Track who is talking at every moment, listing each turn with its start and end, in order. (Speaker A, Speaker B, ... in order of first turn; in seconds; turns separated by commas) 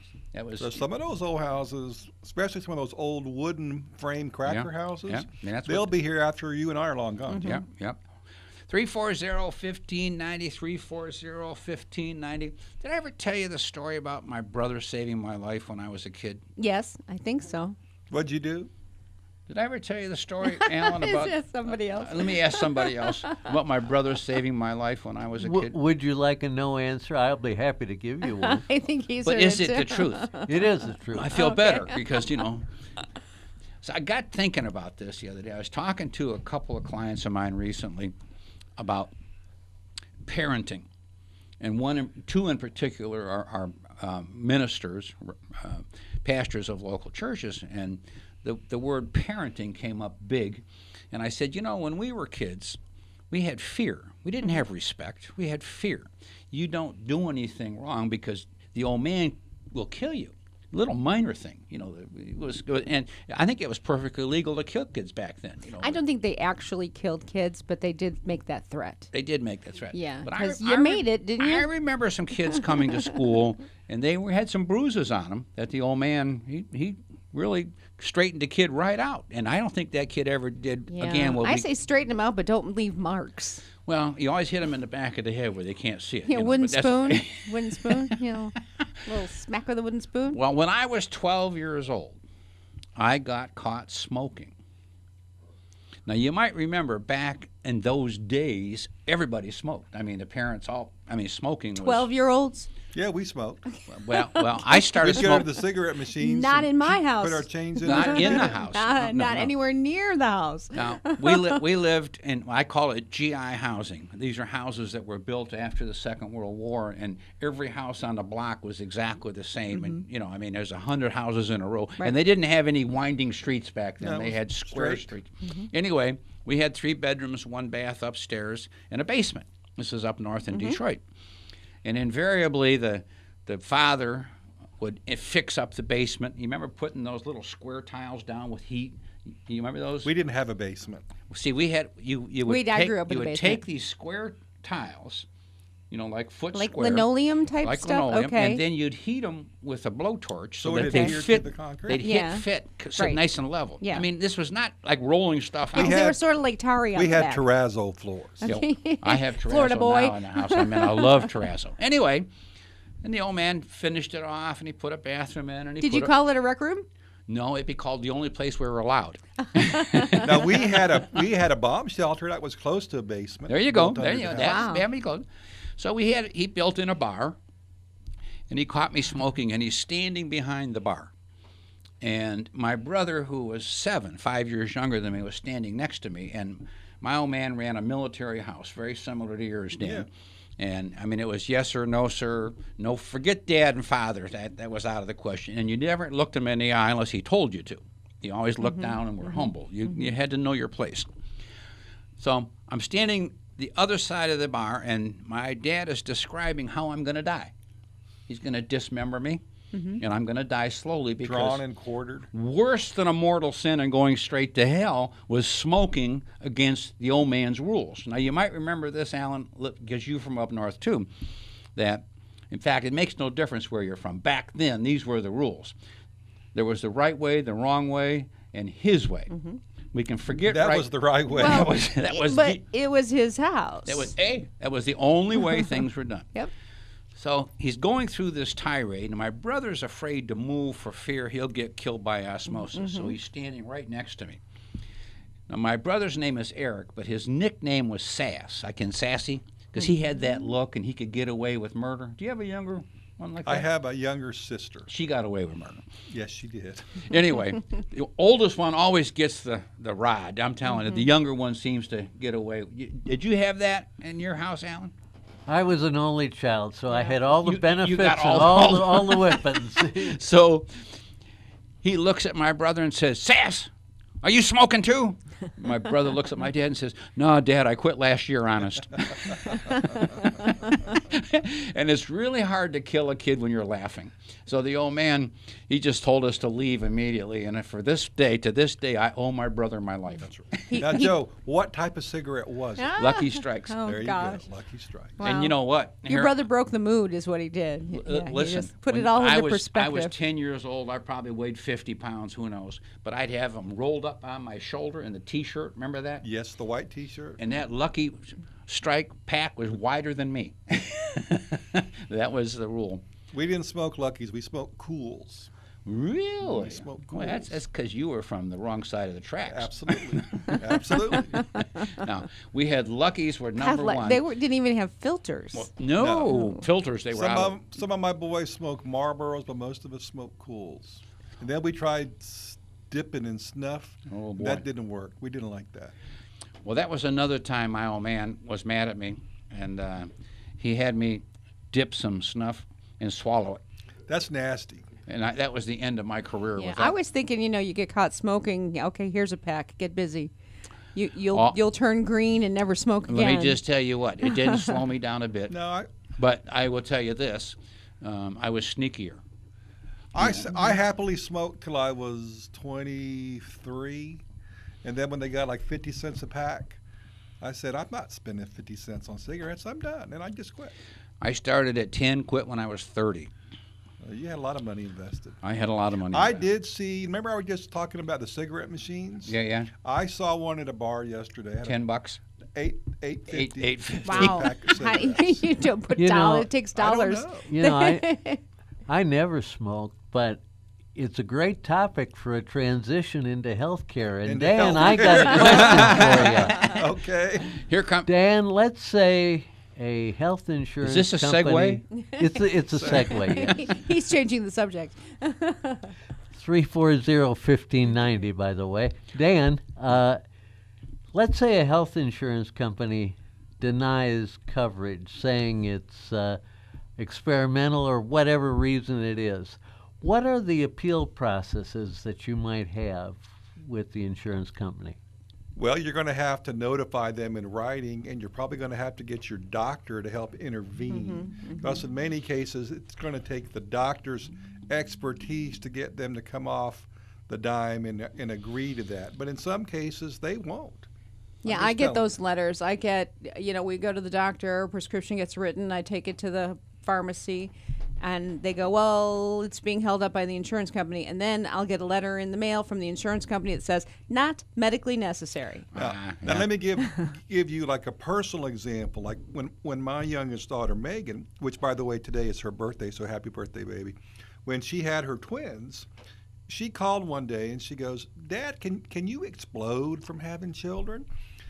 Speaker A: 0.3-0.8, Speaker B: 0.6-7.5, Speaker A: 4.5-5.9, Speaker C: 7.3-7.6, Speaker A: 7.4-8.0, Speaker A: 8.7-16.4, Speaker C: 16.6-17.8, Speaker B: 18.1-18.7, Speaker A: 19.5-25.8, Speaker C: 20.5-23.5, Speaker D: 25.4-28.6, Speaker C: 28.4-30.6, Speaker A: 29.2-30.3, Speaker D: 30.5-31.4, Speaker A: 31.1-32.7, Speaker C: 31.3-32.0, Speaker A: 33.8-38.1, Speaker A: 38.8-39.1, Speaker A: 40.2-40.9, Speaker A: 41.6-52.8, Speaker A: 53.3-66.0, Speaker C: 65.8-69.1, Speaker A: 69.1-81.7, Speaker C: 69.9-71.7, Speaker C: 80.9-83.7, Speaker A: 83.9-88.2, Speaker C: 86.3-88.5, Speaker C: 89.0-90.4, Speaker A: 90.3-92.2, Speaker A: 93.0-94.5, Speaker A: 96.1-102.1, Speaker C: 101.8-102.7, Speaker B: 102.9-103.6, Speaker A: 103.9-105.6, Speaker C: 104.1-105.4, Speaker B: 104.9-108.6, Speaker C: 106.1-111.6, Speaker A: 107.8-109.5, Speaker A: 110.7-131.0, Speaker C: 119.7-120.0, Speaker B: 124.0-125.1, Speaker C: 130.5-130.8, Speaker A: 131.8-140.1, Speaker B: 140.0-141.1, Speaker A: 141.3-145.3, Speaker C: 142.4-143.6, Speaker A: 145.9-147.1, Speaker C: 146.5-148.6, Speaker A: 147.6-156.0, Speaker B: 150.6-152.0, Speaker C: 150.8-151.1, Speaker C: 152.0-152.5, Speaker C: 153.8-154.1, Speaker B: 155.7-156.2, Speaker C: 155.8-157.4, Speaker B: 156.9-158.5, Speaker C: 158.4-161.2, Speaker A: 158.5-162.3, Speaker A: 163.0-166.1, Speaker C: 165.8-166.9, Speaker A: 167.3-170.6, Speaker B: 170.2-174.7, Speaker A: 173.5-175.2, Speaker C: 174.4-174.8, Speaker A: 175.8-177.4, Speaker A: 178.5-181.1, Speaker A: 182.0-201.1, Speaker B: 189.8-190.1, Speaker C: 198.6-200.0, Speaker A: 202.2-207.5, Speaker A: 208.3-209.4, Speaker C: 209.7-210.0, Speaker A: 210.0-211.6, Speaker B: 211.2-212.3, Speaker A: 212.3-221.1, Speaker A: 221.8-225.8, Speaker A: 226.5-229.3, Speaker C: 229.3-229.6, Speaker A: 229.9-232.6, Speaker B: 230.5-231.8, Speaker C: 231.4-234.1, Speaker A: 233.9-236.3, Speaker A: 237.2-244.4, Speaker C: 242.7-243.2, Speaker A: 245.5-253.7, Speaker B: 253.4-254.9, Speaker A: 254.9-255.8, Speaker B: 256.1-257.0, Speaker A: 257.0-264.9, Speaker D: 265.5-270.2, Speaker A: 267.4-271.0, Speaker A: 271.8-273.7, Speaker A: 274.2-290.9, Speaker B: 290.2-292.9, Speaker C: 290.7-291.2, Speaker C: 292.8-294.4, Speaker A: 293.0-293.8, Speaker B: 293.8-295.2, Speaker C: 295.2-300.2, Speaker A: 295.2-296.3, Speaker A: 297.9-306.2, Speaker B: 306.2-307.4, Speaker A: 307.4-313.0, Speaker B: 313.3-315.5, Speaker A: 315.9-324.2, Speaker B: 316.4-317.6, Speaker B: 319.5-321.4, Speaker C: 323.6-325.7, Speaker A: 325.5-327.5, Speaker B: 326.0-326.4, Speaker C: 326.3-326.6, Speaker B: 327.1-335.9, Speaker A: 334.1-334.6, Speaker A: 336.6-343.6, Speaker B: 344.1-344.9, Speaker A: 345.1-346.9, Speaker C: 346.6-350.3, Speaker C: 350.9-353.6, Speaker A: 353.1-355.6, Speaker C: 354.3-354.8, Speaker B: 355.5-355.9, Speaker A: 356.2-359.2, Speaker B: 360.1-364.2, Speaker A: 360.2-360.5, Speaker B: 364.8-366.8, Speaker B: 367.4-370.8, Speaker A: 371.2-373.3, Speaker B: 374.0-375.4, Speaker A: 375.4-376.4, Speaker B: 376.1-381.8, Speaker A: 379.3-379.7, Speaker A: 381.6-382.2, Speaker B: 382.6-385.4, Speaker A: 383.3-384.7, Speaker C: 384.1-388.4, Speaker D: 386.0-386.5, Speaker B: 386.8-387.5, Speaker D: 387.5-388.2, Speaker D: 388.9-390.4, Speaker D: 390.9-396.7, Speaker B: 394.2-397.5, Speaker A: 395.4-396.9, Speaker A: 397.5-398.1, Speaker D: 398.1-403.7, Speaker A: 400.8-401.9, Speaker C: 402.1-405.9, Speaker B: 402.7-403.2, Speaker D: 406.3-410.2, Speaker D: 411.1-416.4, Speaker D: 417.0-425.0, Speaker B: 425.6-440.9, Speaker C: 430.9-431.8, Speaker C: 441.4-455.7, Speaker B: 441.4-442.1, Speaker A: 455.7-456.5, Speaker B: 455.8-465.9, Speaker B: 466.5-471.1